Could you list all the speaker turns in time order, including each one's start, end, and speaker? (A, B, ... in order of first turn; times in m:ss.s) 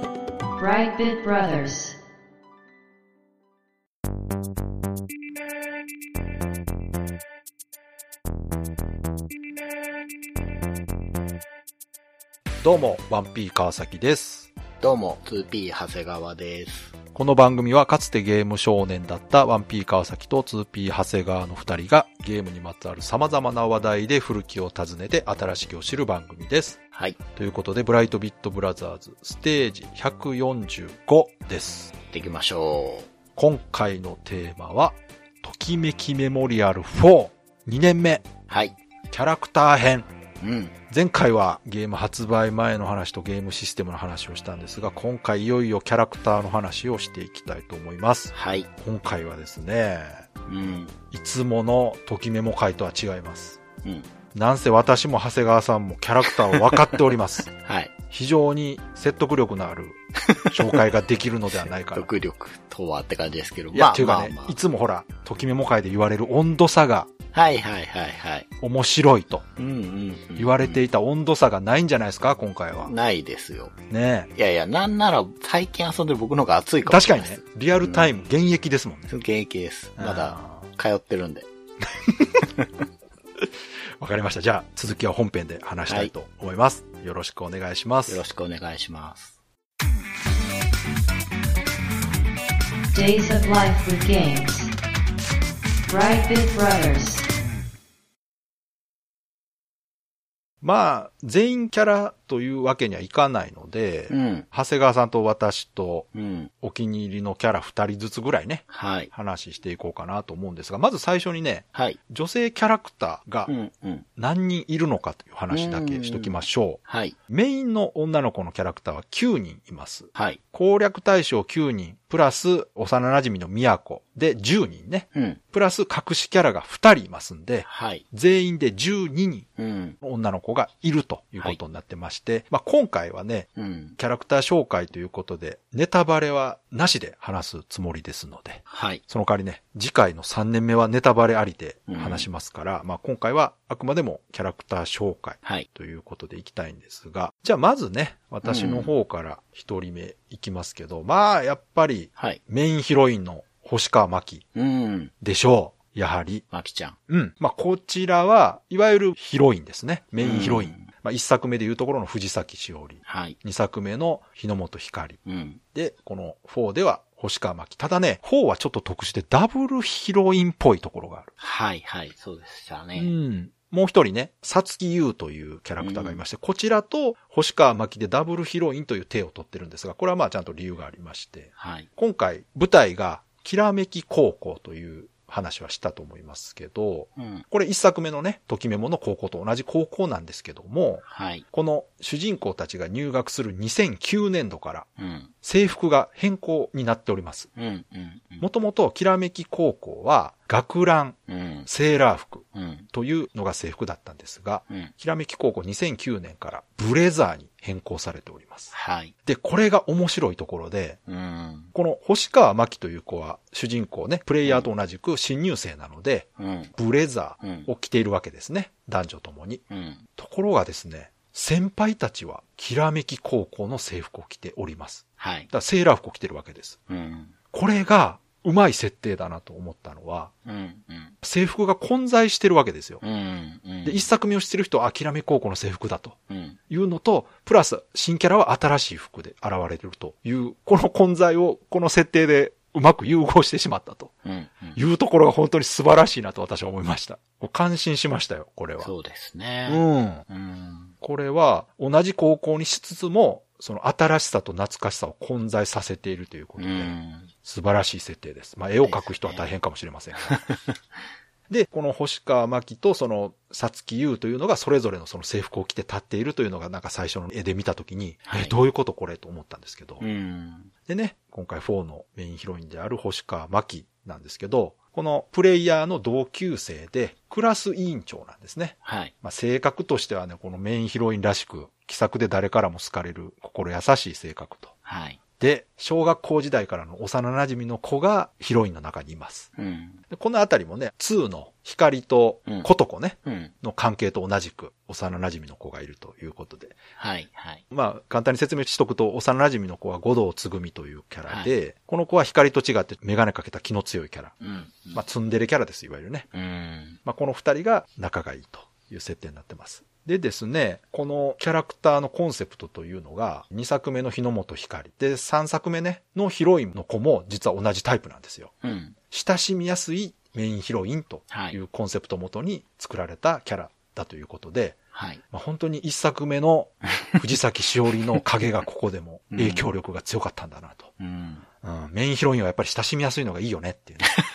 0:00.6-0:02.0 A
0:12.6-0:14.5 B
0:14.8-0:16.9 C
0:17.1-0:26.8 B
0:27.3-0:31.9 B
0:32.1-0:33.1 C
0:33.4-0:38.3 B
0:38.5-0:38.8 C
0:39.1-0:40.1 B
0:40.4-0:40.8 C
0:40.9-0:50.3 B
0:48.3-0:48.7 C
0:50.5-0:51.0 C
0:51.1-0:53.6 B
0:53.8-0:54.1 C
0:54.3-0:57.5 B
0:56.4-0:57.0 C
0:57.5-0:57.9 C
0:58.1-1:02.1 B
1:00.2-1:00.8 C
1:01.9-1:04.6 C
1:03.7-1:07.1 B
1:07.3-1:08.5 C
1:08.6-1:09.4 B
1:09.6-1:10.8 C
1:10.4-1:12.9 B
1:12.8-1:13.7 C
1:13.9-1:14.3 B
1:14.3-1:18.2 C
1:16.8-1:19.1 B
1:19.1-1:21.5 C
1:20.0-1:20.7 B
1:24.0-1:28.2 B
1:28.1-1:29.4 C
1:32.9-1:34.7 A
1:35.9-1:37.3 A
1:40.6-1:46.1 B
1:44.1-1:44.5 C
1:46.1-1:46.5 C
1:46.6-1:53.5 B
1:48.7-1:49.1 C
1:53.5-1:54.1 C
1:54.2-2:09.5 B
1:55.5-1:57.2 C
2:05.1-2:05.4 C
2:07.6-2:08.0 C
2:09.6-2:10.0 C
2:10.0-2:34.4 B
2:13.6-2:14.0 C
2:18.7-2:19.0 C
2:21.9-2:22.3 C
2:28.4-2:28.9 C
2:34.5-2:35.1 C
2:35.2-2:36.4 B
2:36.5-2:37.0 C
2:37.1-2:45.2 B
2:40.2-2:40.9 C
2:43.0-2:43.4 C
2:45.2-2:45.6 C
2:45.7-2:51.3 B
2:51.4-2:53.1 C
2:53.0-3:14.9 B
2:55.8-2:56.2 C
3:01.6-3:01.9 C
3:07.2-3:07.4 C
3:11.0-3:11.4 C
3:15.0-3:15.3 C
3:15.4-3:17.5 B
3:17.6-3:18.5 C
3:18.4-3:28.7 B
3:21.3-3:21.7 C
3:22.5-3:22.9 C
3:28.7-3:29.1 C
3:29.2-3:31.0 B
3:31.1-3:31.7 C
3:31.7-3:39.6 B
3:34.4-3:34.7 C
3:36.4-3:36.7 C
3:37.4-3:37.7 C
3:39.7-3:40.0 C
3:40.2-3:46.8 B
3:45.2-3:45.5 C
3:46.9-3:47.4 C
3:47.5-3:50.3 B
3:50.4-3:51.1 C
3:51.2-3:53.0 B
3:53.0-3:54.1 C
3:53.8-3:56.2 B
3:56.3-3:56.6 C
3:56.7-4:04.1 B
4:04.2-4:04.8 C
4:04.8-4:08.9 B
4:08.8-4:10.9 C
4:09.7-4:10.2 B
4:11.0-4:20.3 B
4:16.6-4:17.3 C
4:18.8-4:19.5 C
4:20.2-4:20.8 C
4:21.5-4:30.0 B
4:28.2-4:28.5 C
4:30.0-4:30.7 C
4:30.9-4:44.7 B
4:38.8-4:39.1 C
4:44.8-4:45.2 C
4:45.4-4:49.5 B
4:49.6-4:50.0 C
4:50.1-4:56.8 B
4:53.2-4:53.5 C
4:57.0-4:57.6 C
4:57.7-5:04.4 B
5:01.3-5:01.5 C
5:04.4-5:05.0 C
5:04.9-5:06.3 B
5:06.3-5:07.0 C
5:07.0-5:18.5 B
5:18.6-5:19.0 C
5:19.1-5:24.8 B
5:21.3-5:21.6 C
5:24.9-5:25.2 C
5:25.3-5:30.9 B
5:29.3-5:29.7 C
5:31.0-5:31.4 C
5:31.6-5:34.2 B